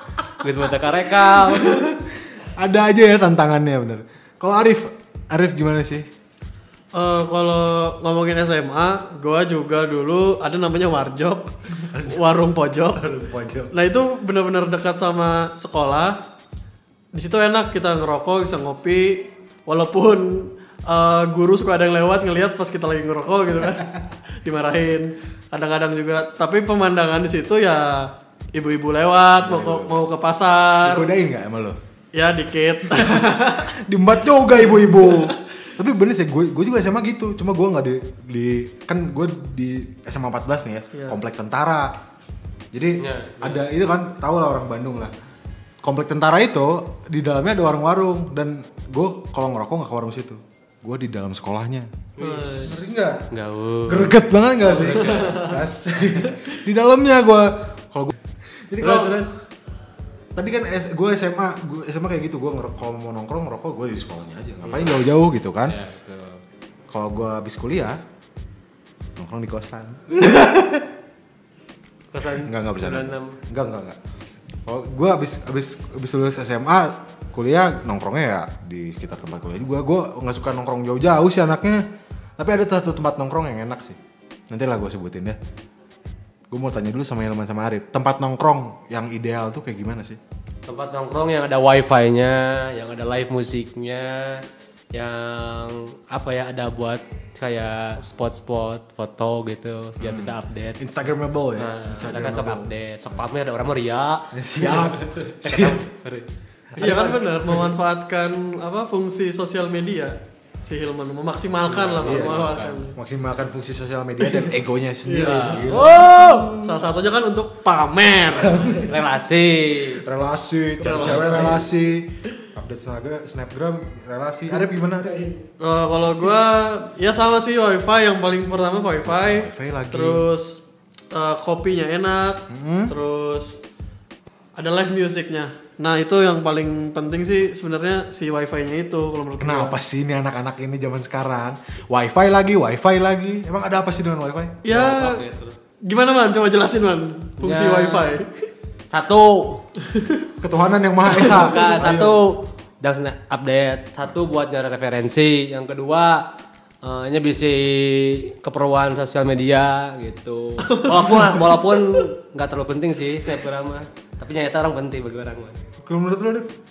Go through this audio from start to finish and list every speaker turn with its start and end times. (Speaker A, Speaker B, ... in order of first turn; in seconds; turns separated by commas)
Speaker A: 0.4-1.8, Speaker B: 1.3-6.0, Speaker C: 6.9-13.1, Speaker B: 11.9-12.2, Speaker B: 12.9-13.7, Speaker C: 13.7-16.2, Speaker C: 17.1-31.1, Speaker B: 29.4-30.0, Speaker B: 30.8-31.8, Speaker C: 32.1-33.7, Speaker B: 32.9-41.9, Speaker C: 34.8-35.4, Speaker B: 42.7-45.1, Speaker A: 43.0-43.6, Speaker B: 45.8-51.9, Speaker A: 52.2-52.6, Speaker C: 52.2-52.7, Speaker B: 52.6-53.2, Speaker A: 53.3-54.1, Speaker B: 53.9-58.1, Speaker C: 54.7-55.6, Speaker B: 58.7-59.3, Speaker A: 58.8-59.3, Speaker B: 60.4-65.8, Speaker A: 64.6-65.0, Speaker A: 65.7-66.4, Speaker B: 66.9-68.0, Speaker B: 69.2-70.9, Speaker A: 72.1-73.4, Speaker B: 72.4-74.0, Speaker B: 74.7-81.8, Speaker B: 82.4-84.0, Speaker B: 84.5-85.4, Speaker B: 86.5-90.2, Speaker A: 90.7-100.8, Speaker B: 100.0-103.2, Speaker A: 101.6-106.2, Speaker B: 104.3-105.8, Speaker B: 106.7-107.5, Speaker C: 106.8-113.0, Speaker A: 111.7-112.8, Speaker B: 112.0-116.8, Speaker C: 115.0-115.7, Speaker A: 115.3-116.5, Speaker C: 116.6-118.8, Speaker B: 118.3-119.0, Speaker A: 118.8-120.0, Speaker B: 120.0-125.3, Speaker C: 120.8-121.7, Speaker C: 125.6-130.6, Speaker B: 129.0-130.2, Speaker C: 131.1-133.6, Speaker B: 132.5-132.9, Speaker C: 134.6-139.8, Speaker B: 139.4-144.6, Speaker C: 144.6-145.2, Speaker A: 144.7-145.6, Speaker C: 145.8-148.3, Speaker A: 147.4-148.1, Speaker A: 148.9-149.6, Speaker C: 149.9-150.2, Speaker B: 150.4-152.2, Speaker C: 151.2-151.4, Speaker A: 151.2-156.2, Speaker A: 156.8-165.6, Speaker C: 160.7-162.0, Speaker B: 165.8-166.5